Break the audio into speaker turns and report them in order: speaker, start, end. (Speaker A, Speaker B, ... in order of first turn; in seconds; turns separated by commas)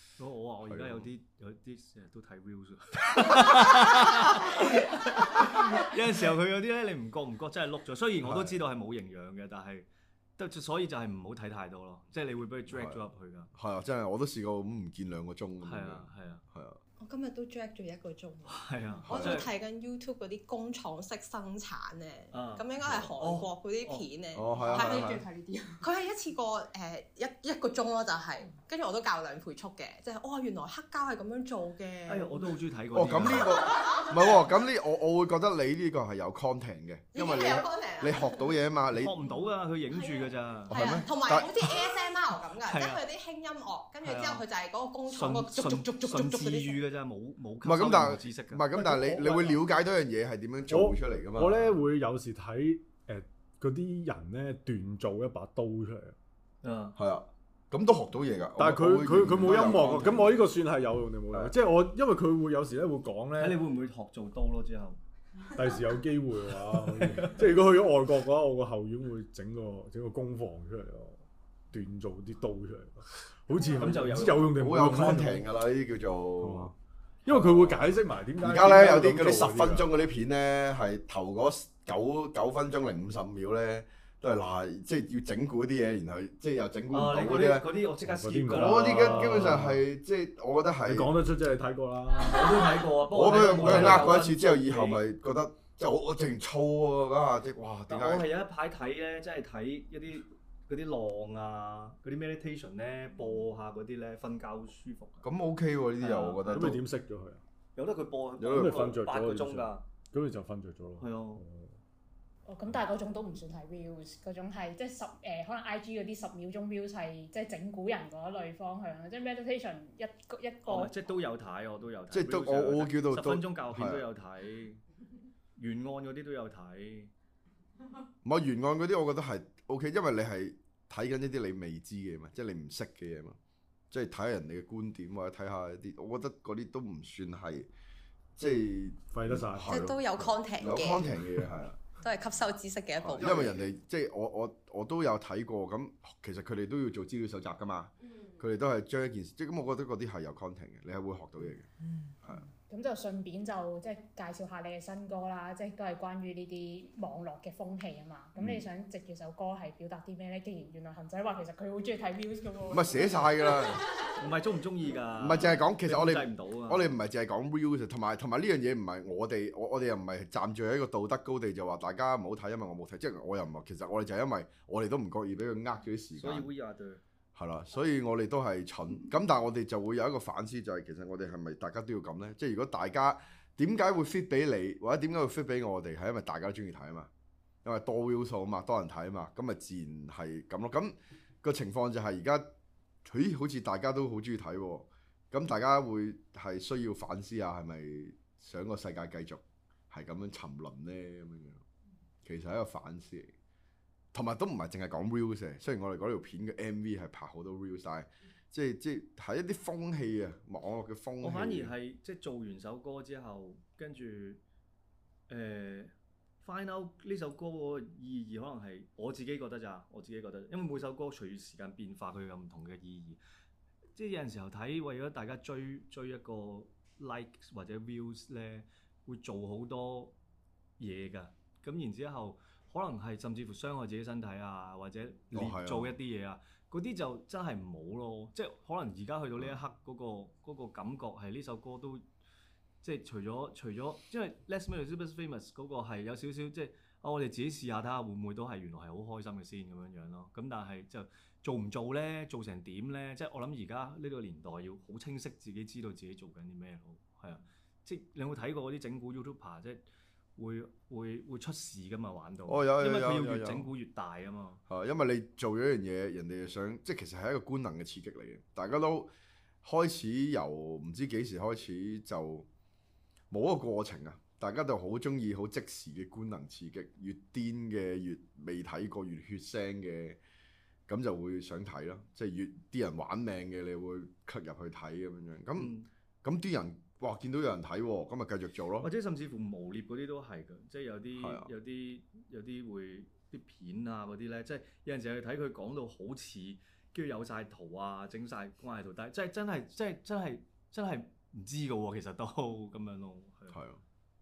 Speaker A: 0.2-13.5, Speaker B: 0.7-1.1, Speaker B: 8.2-8.6, Speaker B: 12.7-13.0, Speaker B: 13.5-16.8, Speaker A: 15.6-16.4, Speaker C: 17.0-25.2, Speaker A: 18.4-19.5, Speaker B: 19.1-19.5, Speaker A: 22.3-24.0, Speaker B: 22.8-23.1, Speaker B: 24.3-25.2, Speaker D: 24.6-25.9, Speaker C: 25.8-32.4, Speaker A: 32.1-33.6, Speaker B: 32.9-39.1, Speaker C: 33.6-34.4, Speaker C: 37.1-38.5, Speaker A: 38.9-41.0, Speaker C: 39.2-46.8, Speaker B: 40.7-41.6, Speaker A: 42.6-43.0, Speaker A: 44.0-44.4, Speaker A: 45.1-48.6, Speaker B: 47.6-51.7, Speaker E: 48.7-49.6, Speaker E: 50.7-56.1, Speaker A: 56.6-57.0, Speaker B: 57.0-60.4, Speaker E: 58.6-63.6, Speaker A: 59.4-60.2, Speaker A: 63.4-65.0, Speaker E: 65.5-75.5, Speaker A: 66.9-67.4, Speaker A: 73.7-74.5, Speaker B: 74.3-76.7, Speaker E: 76.4-76.7, Speaker E: 77.2-79.9, Speaker B: 77.3-87.7, Speaker A: 86.9-89.6, Speaker E: 88.0-89.8, Speaker B: 88.5-91.1, Speaker E: 90.8-92.8, Speaker A: 92.2-95.0, Speaker B: 93.1-98.3, Speaker E: 93.5-94.2, Speaker A: 97.9-105.3, Speaker B: 105.2-106.8, Speaker A: 106.0-106.8, Speaker E: 106.5-107.4, Speaker A: 107.8-109.8, Speaker B: 108.4-108.9, Speaker E: 108.5-111.8, Speaker A: 111.0-111.4, Speaker D: 112.5-120.9, Speaker A: 120.7-124.8, Speaker B: 122.1-124.0, Speaker A: 125.6-127.1, Speaker B: 128.2-133.4, Speaker B: 133.9-137.7, Speaker B: 138.4-141.8, Speaker E: 139.1-139.9, Speaker C: 139.7-141.1, Speaker C: 142.0-143.6, Speaker B: 143.0-151.7, Speaker C: 148.0-148.4, Speaker D: 152.7-163.4, Speaker B: 162.7-163.8, Speaker A: 164.2-166.9, Speaker B: 165.2-176.5, Speaker A: 176.2-177.0, Speaker B: 177.3-187.1, Speaker B: 187.6-192.5, Speaker B: 193.0-201.6, Speaker B: 202.2-203.3, Speaker B: 204.1-211.7, Speaker A: 211.2-214.4, Speaker A: 215.3-223.2, Speaker A: 223.9-230.1, Speaker A: 230.8-242.0, Speaker B: 235.3-235.9, Speaker A: 242.8-259.8, Speaker A: 260.4-264.6, Speaker B: 262.5-263.7, Speaker B: 264.7-269.1, Speaker B: 269.6-272.5, Speaker B: 273.3-280.2, Speaker B: 280.9-288.9, Speaker A: 285.6-285.9, Speaker A: 288.8-303.6, Speaker B: 291.2-291.5, Speaker B: 303.5-303.8